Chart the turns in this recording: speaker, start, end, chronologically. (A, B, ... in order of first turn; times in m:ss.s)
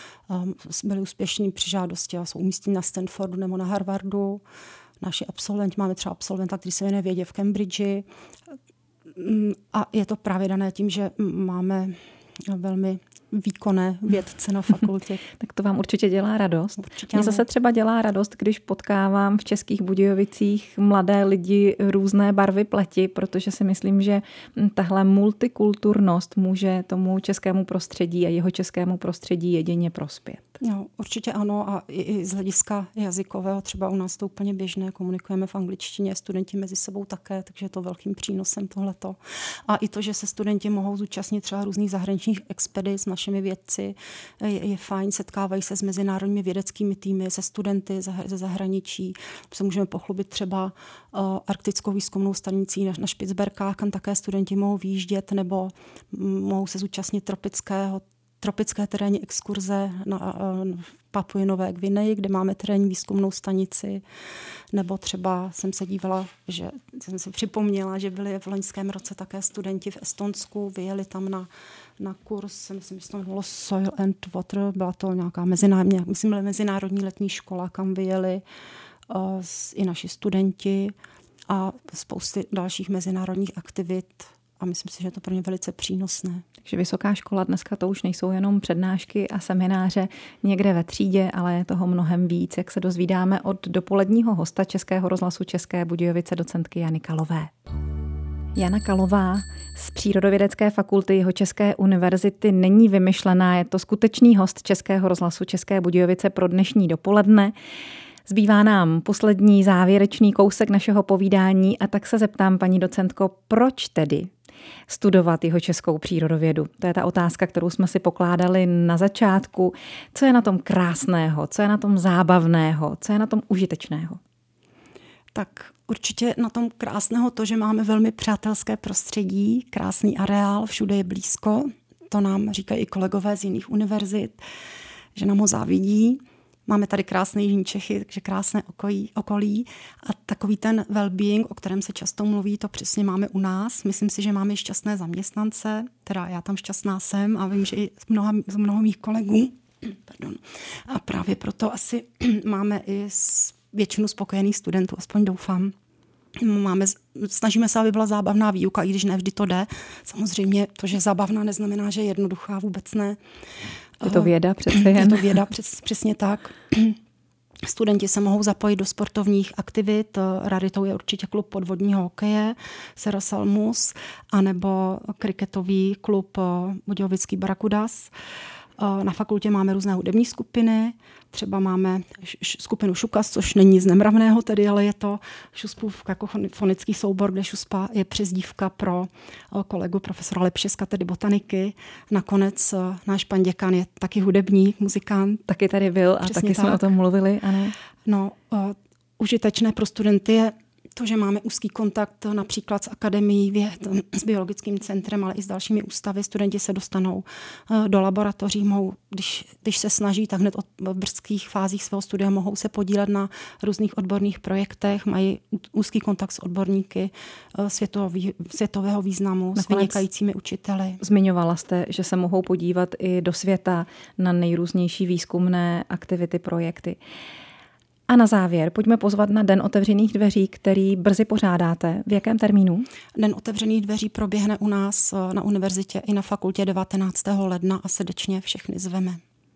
0:00.3-0:04.4 A
0:05.0-0:08.1 A
0:09.1-0:15.2 A
0:15.4-0:30.4 B
0:16.8-0:17.4 A
0:30.6-1:04.0 A
1:04.7-1:11.5 A
1:12.0-1:18.4 A
1:19.1-1:21.0 A
1:21.5-1:26.4 A
1:26.6-1:37.5 B
1:38.6-1:47.5 B
1:48.3-1:54.3 B
1:54.9-2:04.2 B
2:05.3-2:14.4 A
2:15.2-2:35.8 A
2:36.4-2:43.2 A
2:44.0-2:47.0 A
2:44.0-2:45.4 B
2:47.6-2:58.1 A
2:58.8-3:15.4 A
3:15.5-3:17.8 B
3:16.2-3:16.9 A
3:18.0-3:41.0 A
3:39.6-3:40.0 B
3:41.0-3:47.0 B
3:48.1-3:52.9 B
3:53.2-3:59.2 A